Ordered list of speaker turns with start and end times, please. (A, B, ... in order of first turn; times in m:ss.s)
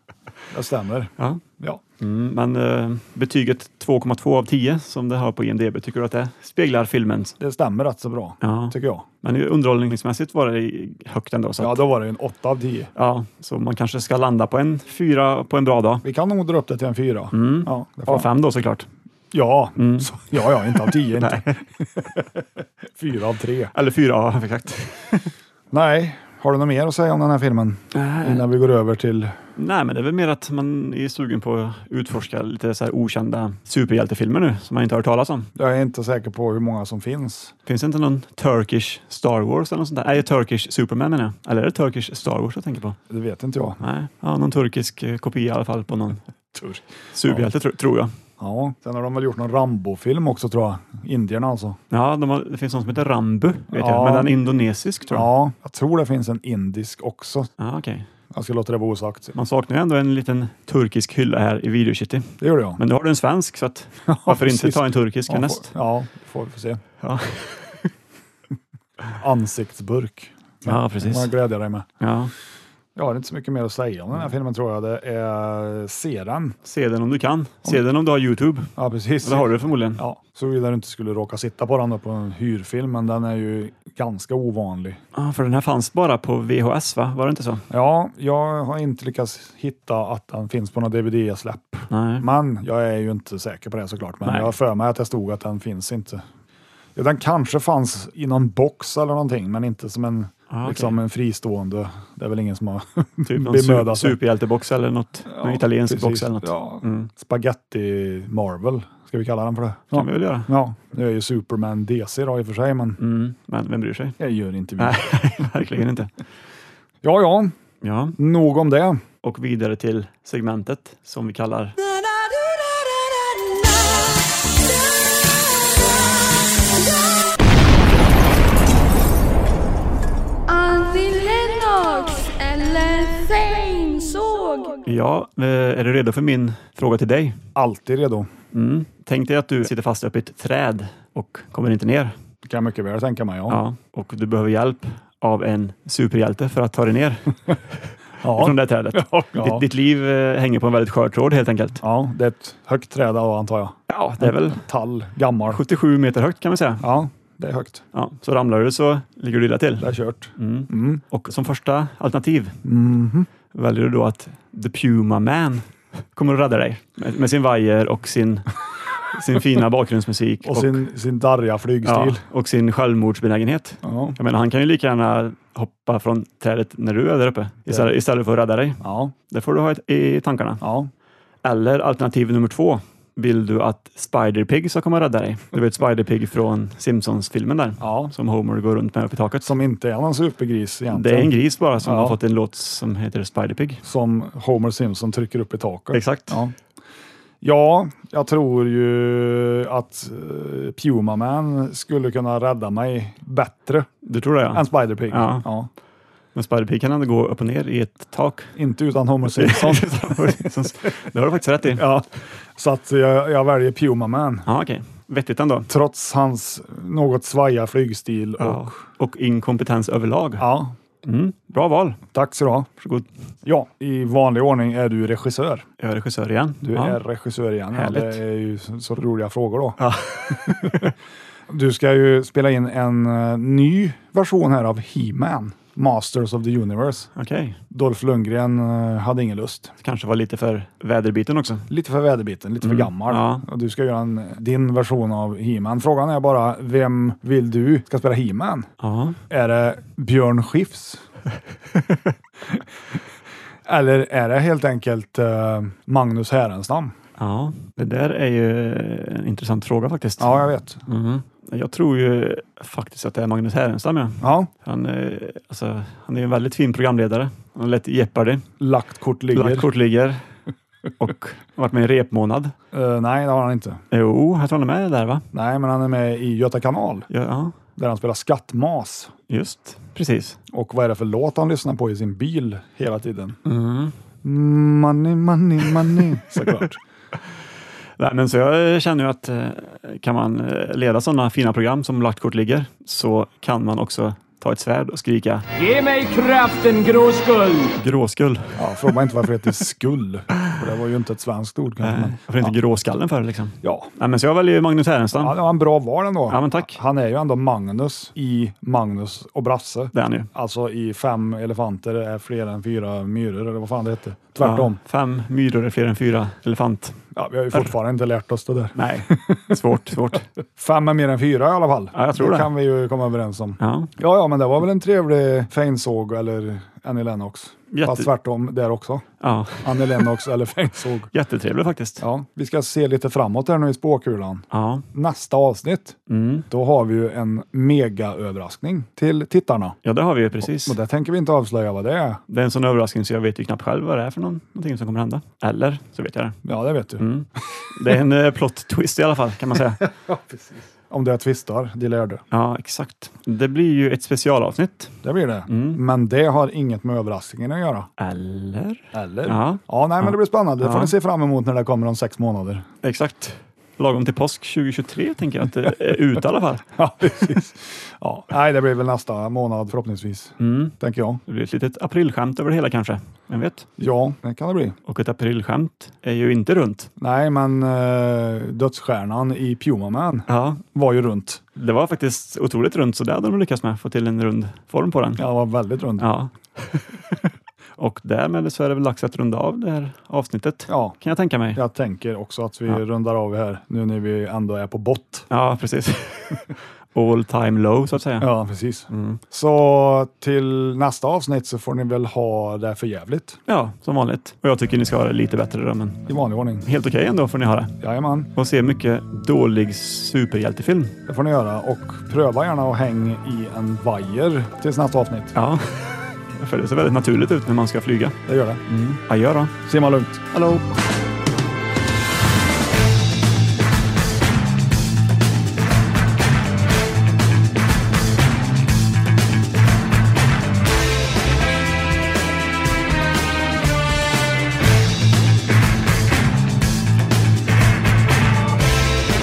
0:00.5-0:01.8 A
0:02.0-0:07.4 B
0:07.4-0:09.0 A
0:08.4-0:11.8 B
0:11.6-0:12.9 A
0:13.0-0:16.0 B
0:16.0-0:18.3 A
0:17.3-0:18.9 B
0:19.3-0:23.7 A
0:19.8-0:21.6 B
0:23.7-0:25.3 B
0:25.7-0:29.4 A
0:27.9-0:28.5 B
0:29.6-0:35.5 B
0:35.6-0:37.5 A
0:37.6-0:43.0 B
0:43.1-0:43.8 A
0:43.8-0:46.2 B
0:46.5-0:47.5 A
0:47.1-0:48.1 B
0:48.4-0:51.8 A
0:51.9-0:55.3 B
0:53.7-0:54.3 A
0:55.1-0:57.5 A
0:57.6-0:58.0 B
0:58.3-0:59.3 A
0:59.3-1:05.7 B
1:02.4-1:02.8 A
1:04.1-1:06.8 A
1:07.0-1:07.9 B
1:09.2-1:11.9 A
1:10.6-1:11.3 B
1:12.0-1:12.3 B
1:12.9-1:16.6 A
1:16.6-1:18.7 B
1:18.8-1:25.0 A
1:19.2-1:20.0 B
1:25.1-1:27.6 B
1:27.7-1:36.2 A
1:31.9-1:32.2 B
1:34.2-1:34.5 B
1:37.0-1:44.2 A
1:40.5-1:41.0 B
1:43.2-1:47.1 B
1:45.3-1:53.0 A
1:49.9-1:50.5 B
1:53.0-1:54.2 B
1:54.2-1:55.0 A
1:54.8-1:56.1 B
1:57.0-1:57.5 A
1:57.8-1:58.2 B
1:58.2-1:59.0 A
1:59.2-2:01.8 B
2:10.5-2:14.8 C
2:14.8-2:17.4 B
2:17.5-2:18.3 A
2:18.5-2:22.1 B
2:22.4-2:23.6 A
2:23.5-2:27.6 B
2:28.2-2:29.6 A
2:28.2-2:31.8 B
2:31.8-2:35.6 A
2:33.9-2:34.6 B
2:35.5-2:36.8 B
2:36.8-2:37.8 A
2:37.9-2:42.6 B
2:39.8-2:41.0 A
2:42.6-2:43.3 A
2:43.5-2:48.5 B
2:49.1-2:50.8 B
2:50.4-2:52.2 A
2:51.8-3:00.6 B
2:53.8-2:54.2 A
2:57.6-2:57.9 A
2:58.8-2:59.1 A
3:00.6-3:00.9 A
3:01.4-3:09.5 B
3:07.8-3:08.1 A
3:09.4-3:12.2 A
3:10.9-3:13.8 B
3:13.8-3:16.5 A
3:15.9-3:16.4 B
3:17.4-3:23.9 A
3:24.0-3:25.5 B
3:24.5-3:25.7 A
3:26.3-3:28.5 B
3:28.5-3:30.5 A
3:29.2-3:31.9 B
3:31.7-3:34.5 A
3:34.4-3:35.7 B
3:35.7-3:38.8 A
3:38.4-3:40.5 B
3:40.4-3:40.7 A
3:41.0-3:42.0 B
3:42.1-3:42.7 A
3:42.8-3:43.0 B
3:43.4-3:45.6 A
3:45.8-3:47.0 B
3:46.6-3:49.8 A
3:47.7-3:48.2 B
3:49.8-3:50.9 B
3:51.5-3:57.1 A
3:57.1-3:57.6 B
3:57.7-3:59.7 A
3:59.8-4:01.7 B
4:01.7-4:08.7 A
4:02.6-4:03.4 B
4:08.8-4:09.2 B
4:09.3-4:11.0 A
4:11.8-4:12.1 B
4:13.6-4:16.9 A
4:17.2-4:28.4 B
4:20.2-4:20.8 A
4:24.2-4:24.5 A
4:28.6-4:29.7 A
4:29.3-4:30.2 B
4:31.0-4:32.5 B
4:32.7-4:33.8 A
4:33.9-4:35.2 B
4:35.3-4:37.1 A
4:37.1-4:37.6 B
4:37.8-4:39.1 A
4:39.3-4:40.4 B
4:40.5-4:43.4 A
4:43.4-4:43.9 B
4:44.2-4:46.8 A
4:45.7-4:46.6 B
4:48.0-4:55.5 B
4:55.7-4:56.6 A
4:56.0-4:58.6 B
4:58.6-5:02.5 A
5:01.8-5:05.4 B
5:03.6-5:03.9 A
5:05.1-5:14.8 A
5:06.3-5:06.8 B
5:09.9-5:10.3 B
5:14.4-5:17.0 B
5:17.1-5:19.6 A
5:18.7-5:20.3 B
5:20.6-5:29.0 A
5:21.9-5:22.5 B
5:23.6-5:23.9 B
5:27.7-5:28.1 B
5:29.2-5:30.1 B
5:29.6-5:31.1 A
5:31.1-5:32.0 B
5:32.0-5:36.0 A
5:34.5-5:34.8 B
5:36.1-5:36.4 B
5:36.5-5:39.8 A
5:39.8-5:40.8 B
5:40.4-5:42.2 A
5:42.3-5:46.4 B
5:46.4-5:47.0 A
5:47.0-5:49.9 B
5:49.8-5:52.2 A
5:52.3-5:55.8 B
5:55.0-5:57.9 A
5:58.0-6:00.9 B
5:58.9-6:02.7 A
6:02.8-6:06.6 B
6:06.7-6:11.2 A
6:10.4-6:10.7 B
6:11.2-6:13.6 B
6:13.8-6:14.8 A
6:14.8-6:16.9 B
6:17.0-6:21.4 A
6:20.3-6:20.6 B
6:21.6-6:25.2 B
6:25.2-6:26.1 A
6:26.0-6:27.0 B
6:27.8-6:31.6 B
6:30.7-6:31.0 A
6:31.5-6:35.3 A
6:35.3-6:38.3 B
6:38.2-6:43.4 A
6:38.9-6:39.2 B
6:43.5-6:46.0 B
6:46.1-6:46.7 A
6:46.6-6:47.7 B
6:47.8-6:48.3 A
6:48.3-6:51.0 B
6:51.0-6:55.3 A
6:55.3-6:59.5 B
6:58.2-6:58.6 A
6:59.6-7:00.4 A
7:00.3-7:00.6 B